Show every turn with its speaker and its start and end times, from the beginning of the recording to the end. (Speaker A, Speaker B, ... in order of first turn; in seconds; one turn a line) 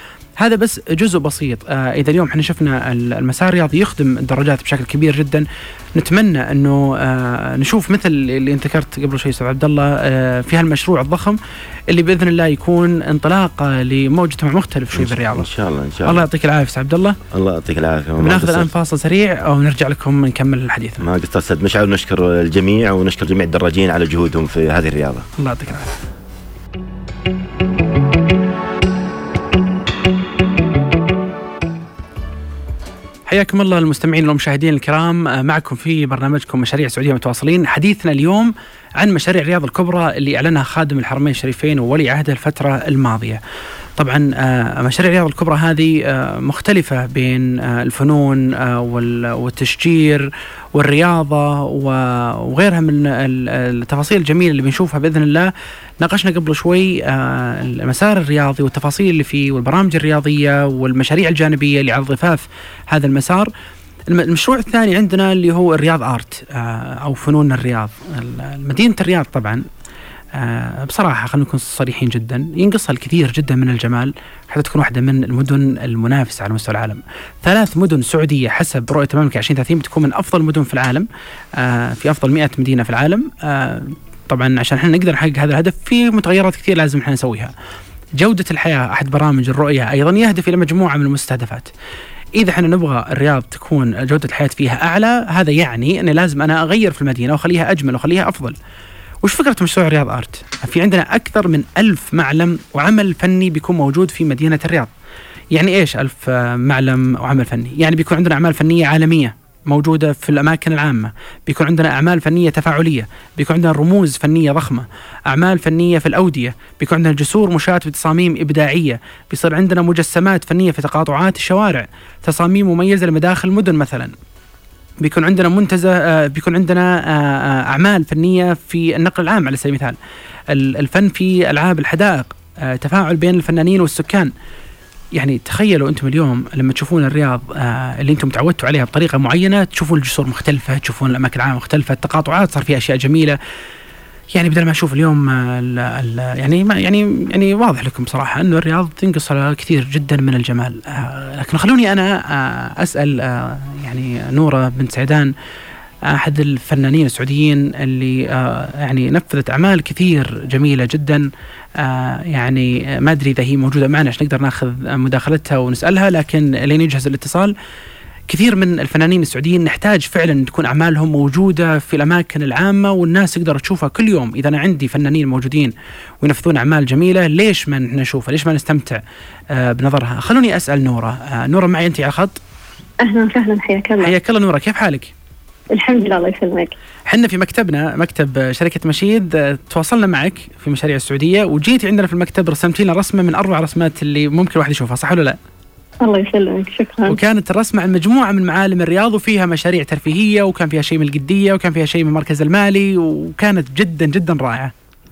Speaker A: 0.4-11.4
Speaker A: 11.9-15.5
Speaker B: 14.9-16.2
Speaker A: 16.0-17.2
Speaker B: 17.3-18.7
Speaker A: 18.2-21.0
Speaker B: 21.0-25.2
Speaker A: 25.4-25.9
Speaker A: 33.3-43.4
Speaker A: 44.0-55.5
Speaker A: 56.0-63.5
Speaker A: 64.1-69.6
Speaker A: 70.3-87.5
Speaker A: 88.2-91.7
Speaker A: 92.4-98.5
Speaker A: 99.2-104.9
Speaker A: 105.5-124.1
Speaker A: 125.0-130.0
Speaker A: 130.5-134.3
Speaker A: 135.1-143.4
Speaker A: 144.3-155.3
Speaker A: 156.1-161.3
Speaker A: 161.8-167.5
Speaker A: 168.3-179.0
Speaker A: 179.5-182.4
Speaker C: 183.0-184.1
Speaker A: 184.0-185.1
Speaker C: 185.7-186.7
Speaker A: 187.1-195.4
Speaker C: 196.0-197.2
Speaker A: 197.1-204.7